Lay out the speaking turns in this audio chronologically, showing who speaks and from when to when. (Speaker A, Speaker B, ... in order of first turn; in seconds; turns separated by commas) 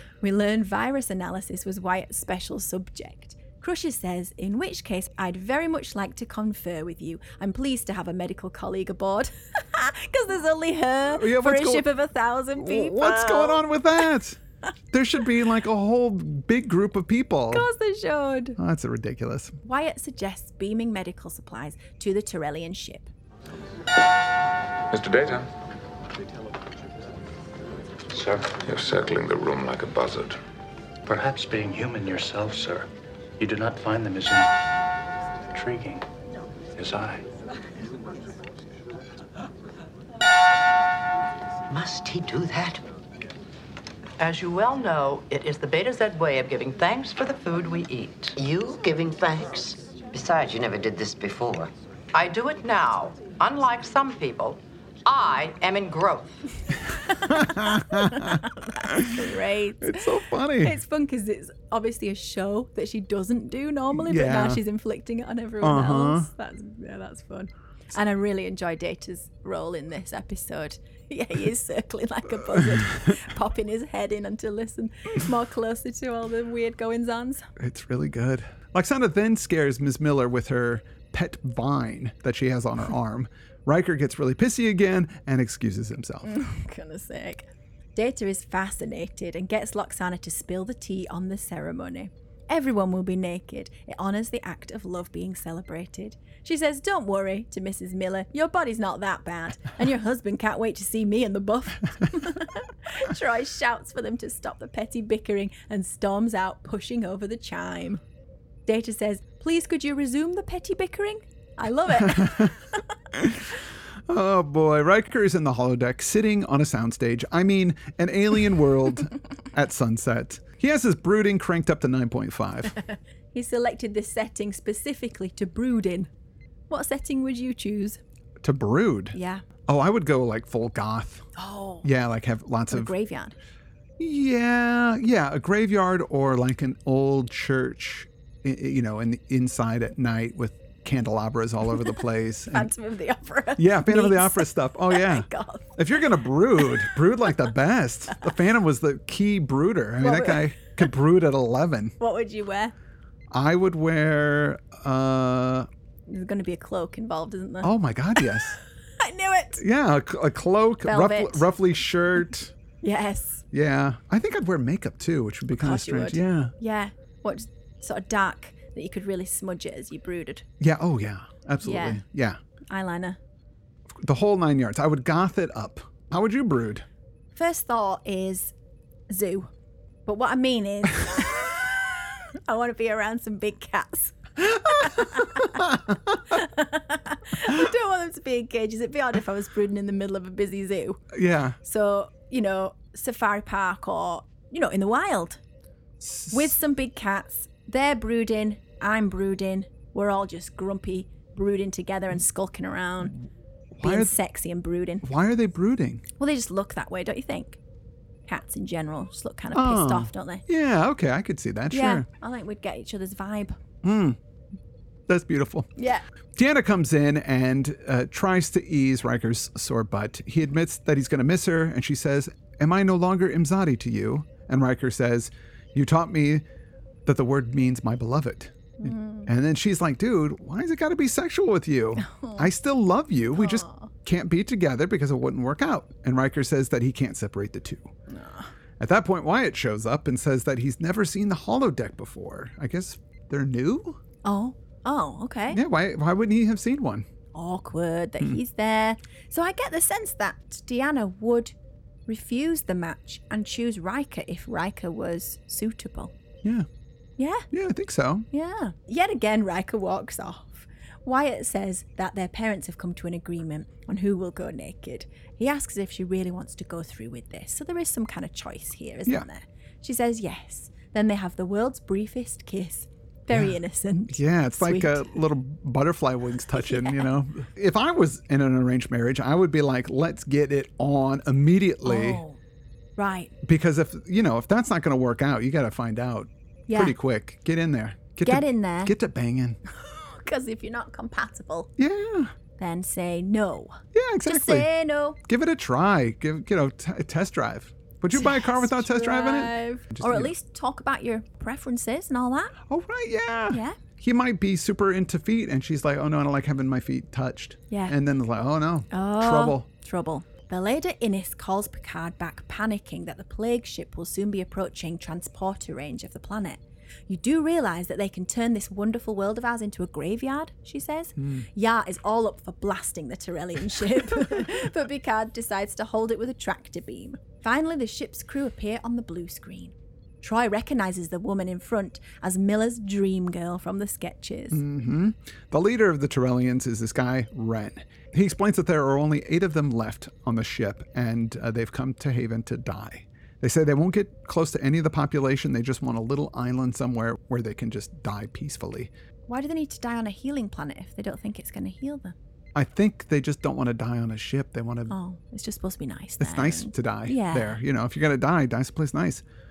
Speaker A: 0.2-13.6, Speaker B: 11.1-11.9, Speaker B: 12.6-14.4, Speaker B: 14.9-17.7, Speaker A: 17.5-18.6, Speaker B: 18.6-19.6, Speaker A: 19.6-23.1, Speaker C: 24.9-25.5, Speaker D: 28.1-28.5, Speaker C: 28.5-30.4, Speaker D: 31.1-34.5, Speaker D: 35.5-36.1, Speaker D: 36.7-37.2, Speaker E: 41.7-42.8, Speaker F: 44.2-48.4, Speaker E: 48.4-51.7, Speaker F: 52.1-56.3, Speaker B: 57.3-59.1, Speaker A: 57.3-77.5, Speaker B: 59.8-60.8, Speaker B: 63.9-64.6, Speaker B: 65.6-66.3, Speaker B: 77.6-86.3, Speaker A: 86.2-108.0, Speaker A: 108.7-112.8, Speaker B: 112.0-112.5, Speaker B: 113.1-113.5, Speaker B: 114.1-122.8, Speaker A: 123.3-126.1, Speaker A: 126.7-128.0, Speaker B: 128.4-131.3, Speaker A: 129.1-129.4, Speaker A: 131.3-131.9, Speaker B: 131.8-132.9, Speaker A: 132.7-133.3, Speaker B: 134.0-142.7, Speaker A: 142.5-145.8, Speaker B: 143.6-151.9, Speaker A: 146.6-146.9, Speaker A: 150.0-150.9, Speaker A: 152.0-152.7, Speaker B: 153.3-155.7, Speaker A: 156.1-158.4, Speaker B: 157.6-158.6, Speaker A: 159.0-159.6, Speaker B: 159.6-162.5, Speaker A: 160.8-161.5, Speaker A: 162.8-163.4, Speaker B: 163.5-166.5, Speaker A: 165.5-170.4, Speaker B: 170.6-172.4, Speaker A: 171.6-172.0, Speaker A: 172.7-173.2, Speaker B: 174.0-176.8, Speaker A: 177.3-178.5, Speaker A: 179.1-179.5, Speaker A: 180.1-191.0, Speaker B: 184.8-185.9, Speaker B: 191.1-191.6, Speaker A: 191.6-195.4, Speaker B: 196.0-196.5, Speaker A: 196.3-203.2, Speaker B: 203.7-204.1, Speaker A: 203.8-205.1, Speaker B: 205.0-206.0, Speaker A: 206.2-207.6, Speaker A: 208.2-210.4, Speaker B: 209.5-212.1, Speaker A: 211.7-213.6, Speaker B: 213.8-214.2, Speaker B: 215.1-215.7, Speaker A: 215.8-216.0, Speaker B: 216.3-226.4, Speaker B: 227.1-237.9, Speaker A: 228.8-229.3, Speaker A: 232.0-232.5, Speaker A: 233.3-233.9, Speaker A: 238.1-238.5, Speaker B: 238.8-244.0, Speaker A: 244.2-245.6, Speaker B: 245.5-247.1, Speaker A: 247.3-251.5, Speaker A: 252.1-256.1, Speaker A: 257.2-257.5, Speaker B: 257.5-258.3, Speaker A: 258.3-275.1, Speaker B: 273.3-273.6, Speaker B: 274.1-282.2, Speaker A: 276.5-277.1, Speaker A: 281.8-282.4, Speaker A: 283.0-283.3, Speaker B: 283.4-289.6, Speaker A: 286.7-286.9, Speaker A: 288.2-288.9, Speaker A: 289.7-291.7, Speaker B: 291.8-292.3, Speaker A: 292.6-295.2, Speaker B: 293.9-294.7, Speaker B: 295.2-300.3, Speaker A: 298.1-302.5, Speaker B: 302.7-309.6, Speaker A: 303.5-303.8, Speaker A: 307.7-308.0, Speaker A: 308.9-334.6, Speaker B: 321.2-321.4, Speaker B: 334.5-348.9, Speaker A: 349.3-352.1, Speaker B: 352.5-354.9, Speaker A: 354.9-357.6, Speaker B: 356.2-359.2